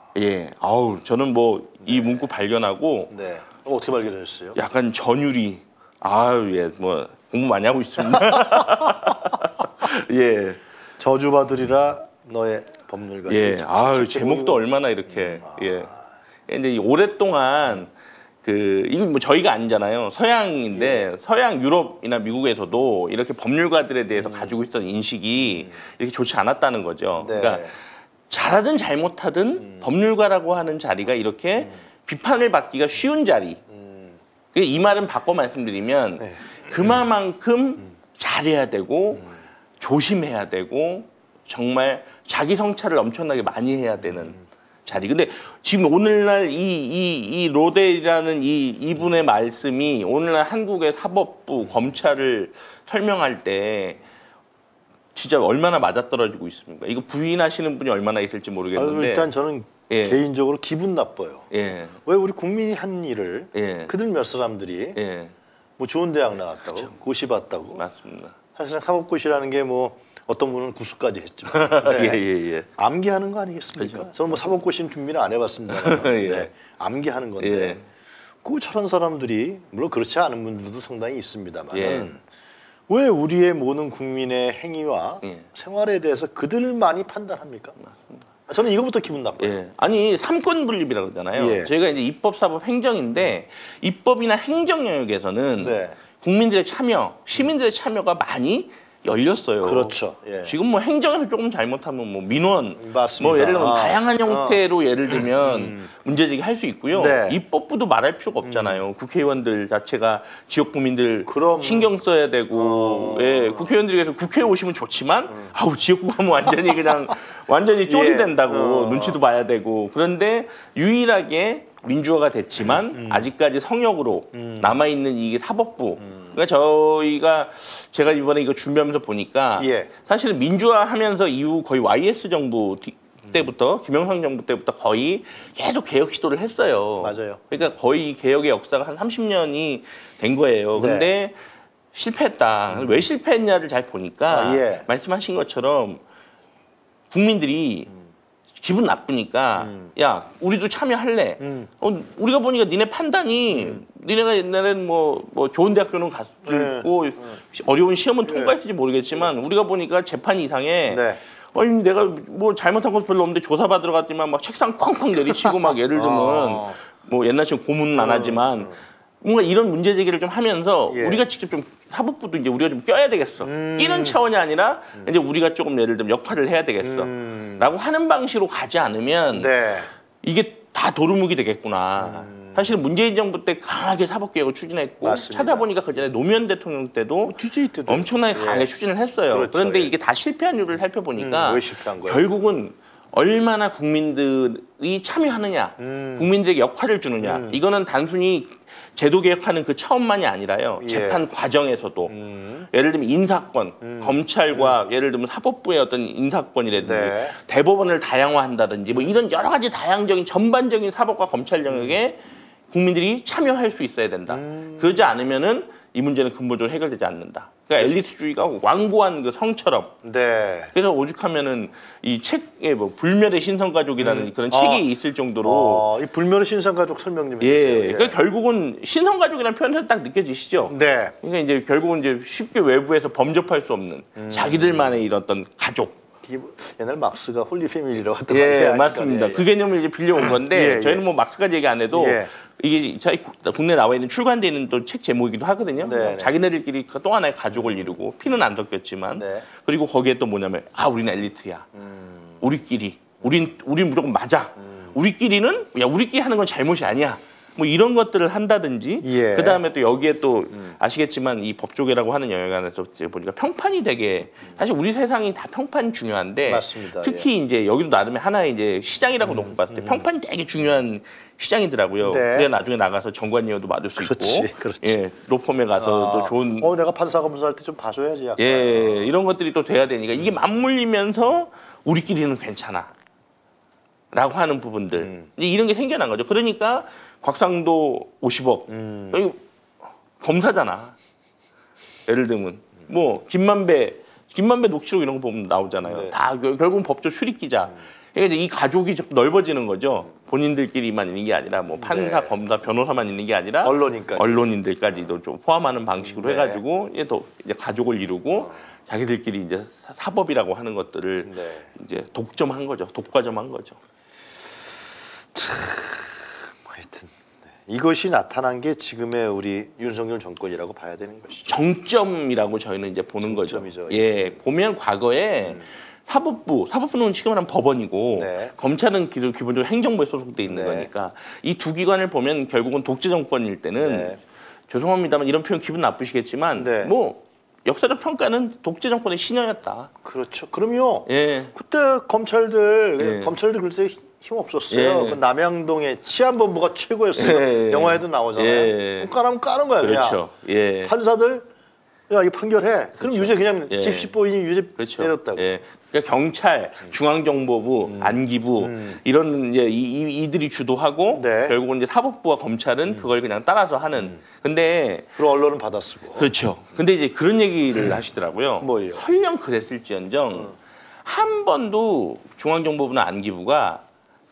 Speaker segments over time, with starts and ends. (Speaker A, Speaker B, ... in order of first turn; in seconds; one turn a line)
Speaker A: 0.1-3.1
Speaker B: 1.8-2.1
Speaker B: 3.1-4.6
Speaker A: 4.5-10.6
Speaker B: 8.3-8.9
Speaker B: 11.0-16.0
Speaker A: 13.3-15.9
Speaker A: 16.5-17.9
Speaker A: 18.4-27.8
Speaker B: 20.7-21.0
Speaker B: 24.2-24.5
Speaker B: 27.2-27.7
Speaker A: 28.3-33.6
Speaker B: 29.6-29.9
Speaker B: 33.7-34.2
Speaker A: 34.5-54.0
Speaker B: 36.2-36.5
Speaker A: 55.1-59.3
Speaker B: 58.7-65.0
Speaker A: 59.9-60.2
Speaker A: 61.5-62.0
Speaker A: 63.5-63.9
Speaker A: 65.0-65.3
Speaker B: 65.8-67.8
Speaker A: 67.7-68.3
Speaker B: 68.5-72.2
Speaker A: 71.5-72.7
Speaker B: 72.8-77.8
Speaker A: 73.8-74.2
Speaker A: 75.7-76.5
Speaker A: 77.4-77.8
Speaker B: 78.4-82.2
Speaker A: 81.7-82.1
Speaker B: 82.9-87.8
Speaker A: 87.8-88.2
Speaker B: 88.5-89.6
Speaker A: 89.4-141.4
Speaker B: 91.3-91.7
Speaker B: 95.6-96.0
Speaker B: 99.6-100.5
Speaker B: 102.8-104.6
Speaker B: 105.2-105.9
Speaker B: 106.9-107.4
Speaker B: 108.4-108.8
Speaker B: 111.2-111.9
Speaker B: 112.5-113.7
Speaker B: 117.9-119.2
Speaker B: 122.9-123.3
Speaker B: 124.3-124.8
Speaker B: 126.0-126.3
Speaker B: 129.6-129.9
Speaker B: 137.0-137.4
Speaker B: 140.8-141.1
Speaker A: 141.9-146.0
Speaker B: 144.3-144.9
Speaker A: 147.1-147.9
Speaker A: 148.6-179.5
Speaker B: 149.6-149.9
Speaker B: 151.4-151.7
Speaker B: 153.5-153.8
Speaker B: 156.4-157.4
Speaker B: 158.2-158.5
Speaker B: 160.9-161.2
Speaker B: 165.9-166.8
Speaker B: 167.9-168.8
Speaker B: 170.9-171.2
Speaker B: 173.4-174.2
Speaker B: 176.8-177.7
Speaker B: 179.3-179.9
Speaker A: 180.2-202.1
Speaker B: 182.0-182.8
Speaker B: 185.0-185.7
Speaker B: 187.2-188.7
Speaker B: 189.3-189.9
Speaker B: 191.2-192.2
Speaker B: 195.8-196.3
Speaker B: 197.2-197.6
Speaker B: 200.8-201.2
Speaker B: 202.1-202.7
Speaker A: 202.7-219.9
Speaker B: 203.8-204.7
Speaker B: 206.8-207.3
Speaker B: 214.3-215.1
Speaker B: 220.0-220.7
Speaker A: 220.7-225.8
Speaker B: 224.0-224.8
Speaker B: 225.4-228.2
Speaker A: 227.4-236.0
Speaker B: 230.6-231.1
Speaker B: 234.2-235.1
Speaker B: 236.2-239.4
Speaker A: 238.3-251.7
Speaker B: 240.2-241.0
Speaker B: 241.9-242.3
Speaker B: 245.8-246.3
Speaker B: 249.1-249.5
Speaker B: 251.7-252.4
Speaker A: 252.4-276.7
Speaker B: 254.6-254.9
Speaker B: 259.0-259.6
Speaker B: 266.4-267.3
Speaker B: 269.2-270.0
Speaker B: 272.0-272.5
Speaker B: 274.0-275.0
Speaker B: 275.8-279.1
Speaker A: 278.4-282.9
Speaker A: 284.1-289.4
Speaker B: 285.0-285.3
Speaker B: 288.7-289.3
Speaker A: 290.2-290.9
Speaker A: 292.1-313.8
Speaker B: 295.8-296.1
Speaker B: 301.8-302.3
Speaker B: 303.6-304.5
Speaker B: 306.0-306.6
Speaker B: 311.2-311.7
Speaker B: 315.3-317.1
Speaker B: 317.6-321.5
Speaker A: 321.5-334.1
Speaker B: 323.2-324.4
Speaker B: 325.5-325.7
Speaker B: 328.1-328.5
Speaker B: 330.4-330.9
Speaker B: 333.8-334.2
Speaker A: 334.7-339.9
Speaker B: 336.6-336.9
Speaker B: 340.0-350.2
Speaker A: 341.1-341.5
Speaker A: 343.0-343.3
Speaker A: 344.7-345.2
Speaker A: 347.1-349.1
Speaker A: 349.8-350.9
Speaker B: 350.8-351.5
Speaker B: 352.1-355.6
Speaker A: 353.0-354.1
Speaker A: 354.8-365.1
Speaker B: 357.8-359.0
Speaker B: 361.1-361.6
Speaker B: 365.1-366.3
Speaker A: 366.2-373.8
Speaker B: 368.6-369.0